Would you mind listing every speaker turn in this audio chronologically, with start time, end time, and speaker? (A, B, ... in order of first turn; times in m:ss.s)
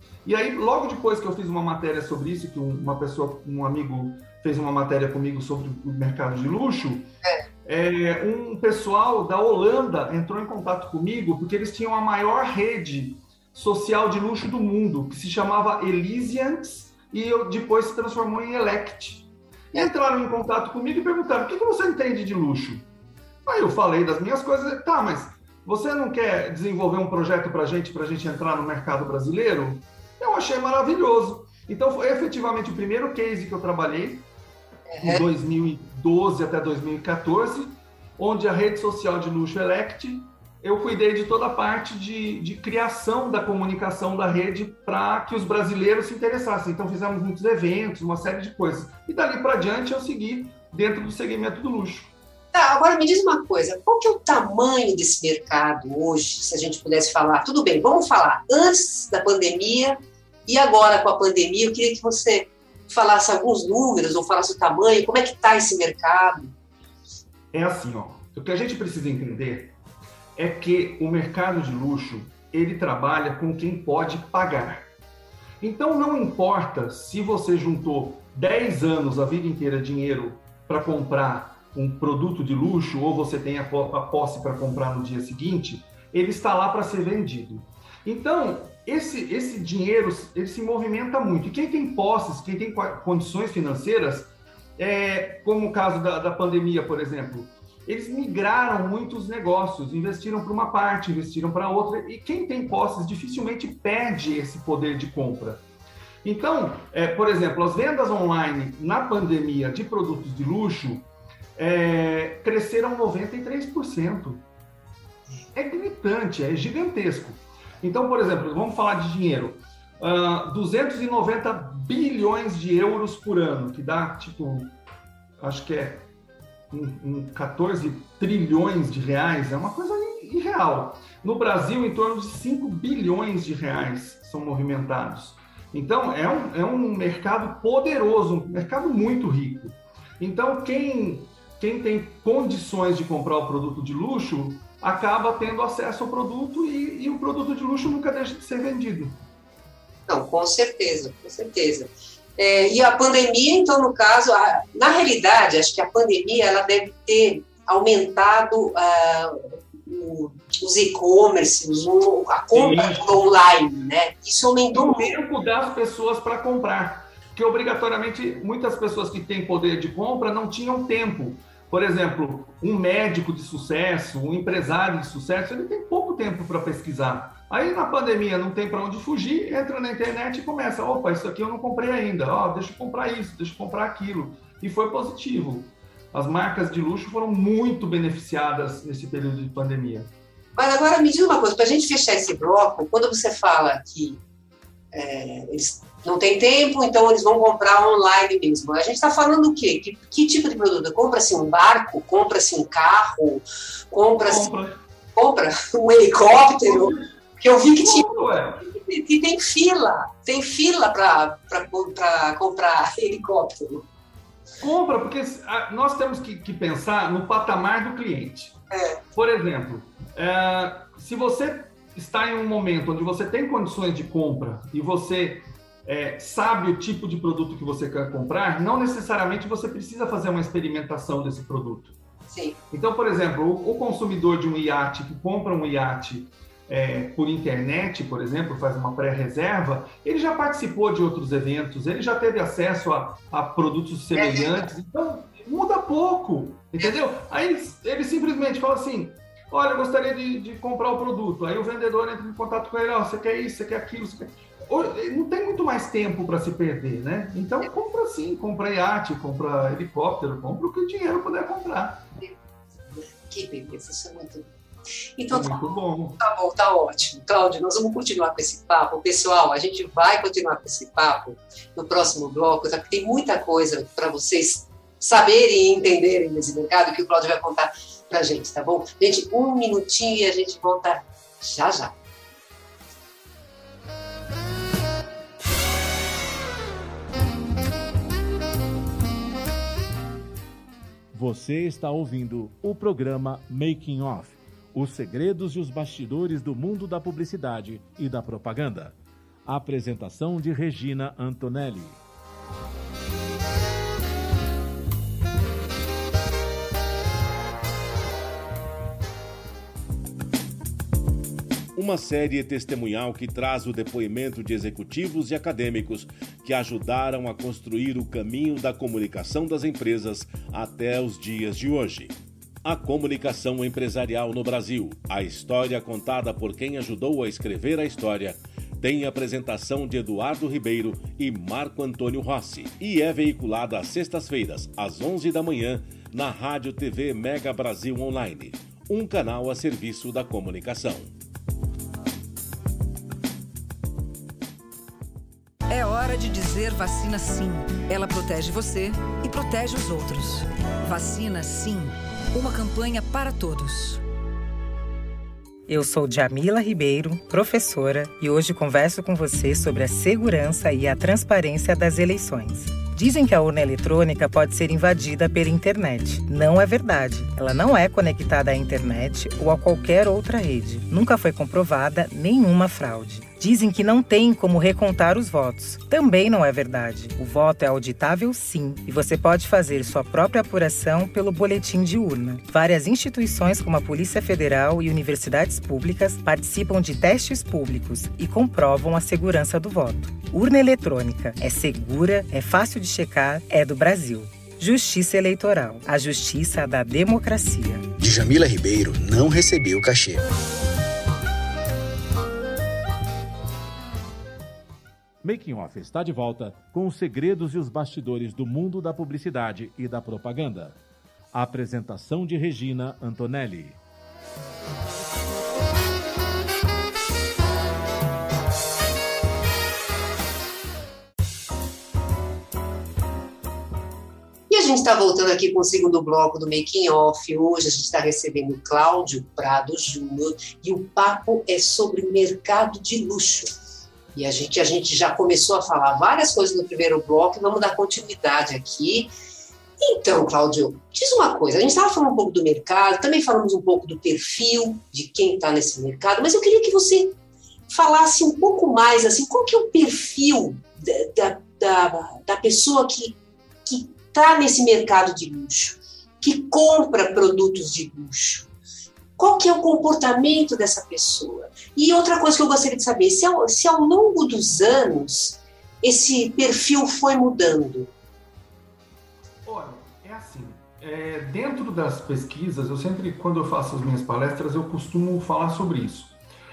0:00.2-0:07.1 A
0:07.6-0:22.8 A
0:23.4-0:34.3 A
0:34.9-0:35.2 B
0:35.0-0:52.1 A
0:52.5-1:06.5 B
1:07.5-1:09.7 A
1:10.4-1:14.9 A
1:15.6-1:45.6 A
1:46.2-1:54.4 A
1:55.5-2:04.7 A
2:05.4-2:06.1 A
2:06.7-2:29.2 A
2:30.1-2:45.2 B
2:42.5-2:43.2 A
2:44.7-3:10.1 A
3:10.6-3:14.2 B
3:14.9-3:24.5 B
3:24.2-3:24.8 A
3:25.1-3:33.8 B
3:26.5-3:27.1 A
3:27.8-3:28.6 A
3:34.6-3:38.6 A
3:38.7-3:39.0 B
3:39.1-3:51.9 A
3:52.3-3:52.6 B
3:52.7-4:22.1 A
4:04.1-4:04.7 B
4:22.9-4:24.5 B
4:25.2-4:41.9 B
4:25.3-4:26.2 A
4:51.1-4:58.9 C
4:59.5-5:02.0 C
5:11.7-5:41.1 C
5:45.7-5:54.0 D
5:55.7-6:37.8 E
6:38.0-6:40.2 F
6:45.2-6:50.8 C
6:51.3-6:53.8 C
7:04.5-7:13.5 B
7:14.1-7:19.1 B
7:19.8-7:27.1 B
7:27.7-7:38.5 B
7:39.2-7:47.9 B
7:49.4-7:56.2 A